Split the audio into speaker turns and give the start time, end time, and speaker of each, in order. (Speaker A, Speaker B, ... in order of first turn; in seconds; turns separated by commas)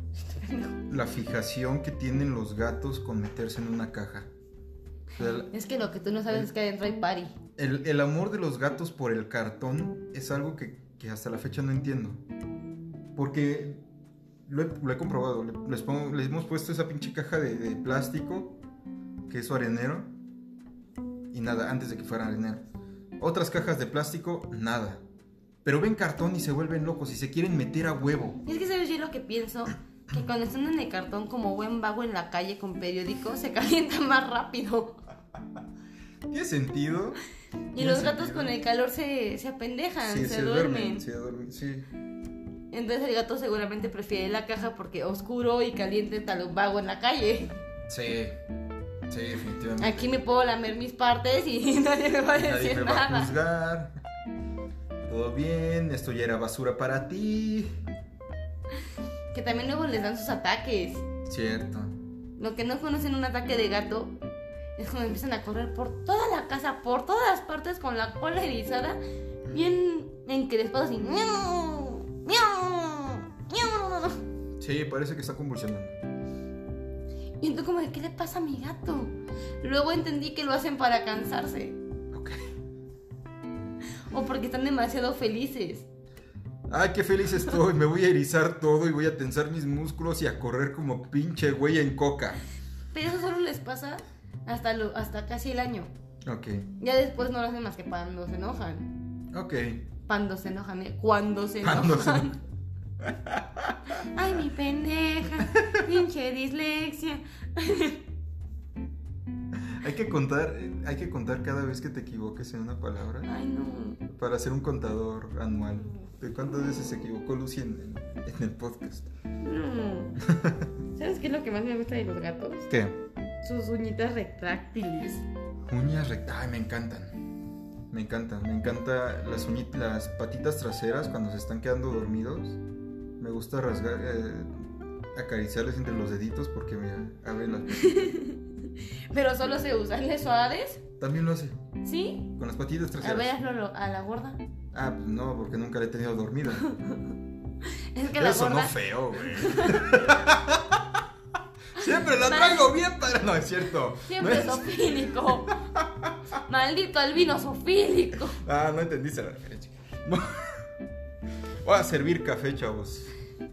Speaker A: 0.3-0.8, Speaker B: 0.9-4.3, Speaker B: 5.2-5.5, Speaker A: 5.3-7.3, Speaker B: 7.6-12.2, Speaker B: 13.2-13.8, Speaker B: 14.5-18.6, Speaker B: 19.3-20.1, Speaker B: 21.3-22.6, Speaker B: 23.2-25.0, Speaker B: 25.6-28.4, Speaker A: 28.5-35.0, Speaker B: 36.3-37.2, Speaker A: 37.7-41.0, Speaker B: 37.8-38.5, Speaker B: 40.0-41.9, Speaker A: 42.7-47.6, Speaker B: 47.9-48.4, Speaker B: 49.1-50.1, Speaker A: 49.8-53.3, Speaker B: 52.4-53.9, Speaker B: 55.1-57.8, Speaker A: 59.3-61.1, Speaker B: 61.3-62.0, Speaker A: 62.4-64.2, Speaker A: 64.8-74.2, Speaker B: 74.6-76.0, Speaker A: 77.4-81.8, Speaker B: 82.1-82.4, Speaker A: 84.1-85.9, Speaker B: 86.7-92.4, Speaker A: 92.9-95.9, Speaker B: 96.2-96.7, Speaker A: 96.8-98.9, Speaker B: 99.3-99.8, Speaker A: 100.1-102.4, Speaker B: 101.6-102.3, Speaker B: 103.0-103.9, Speaker A: 103.9-108.0, Speaker B: 105.5-105.8, Speaker B: 109.5-113.3, Speaker A: 113.2-114.0, Speaker B: 114.1-119.1, Speaker A: 119.4-120.2, Speaker B: 120.2-120.7, Speaker A: 121.0-122.7, Speaker B: 122.7-123.0, Speaker A: 123.4-125.2, Speaker B: 125.7-127.2, Speaker B: 127.9-132.6, Speaker B: 133.2-138.2, Speaker A: 137.7-140.8, Speaker B: 141.0-141.6, Speaker A: 141.8-142.3, Speaker B: 142.4-143.3, Speaker A: 143.0-144.4, Speaker B: 144.7-146.7, Speaker A: 146.6-147.1, Speaker A: 147.9-150.0, Speaker B: 148.2-151.0, Speaker B: 151.7-154.7, Speaker A: 152.2-152.7, Speaker A: 154.1-155.6, Speaker B: 155.2-156.2, Speaker A: 156.4-158.4, Speaker B: 158.3-160.6, Speaker B: 161.6-163.1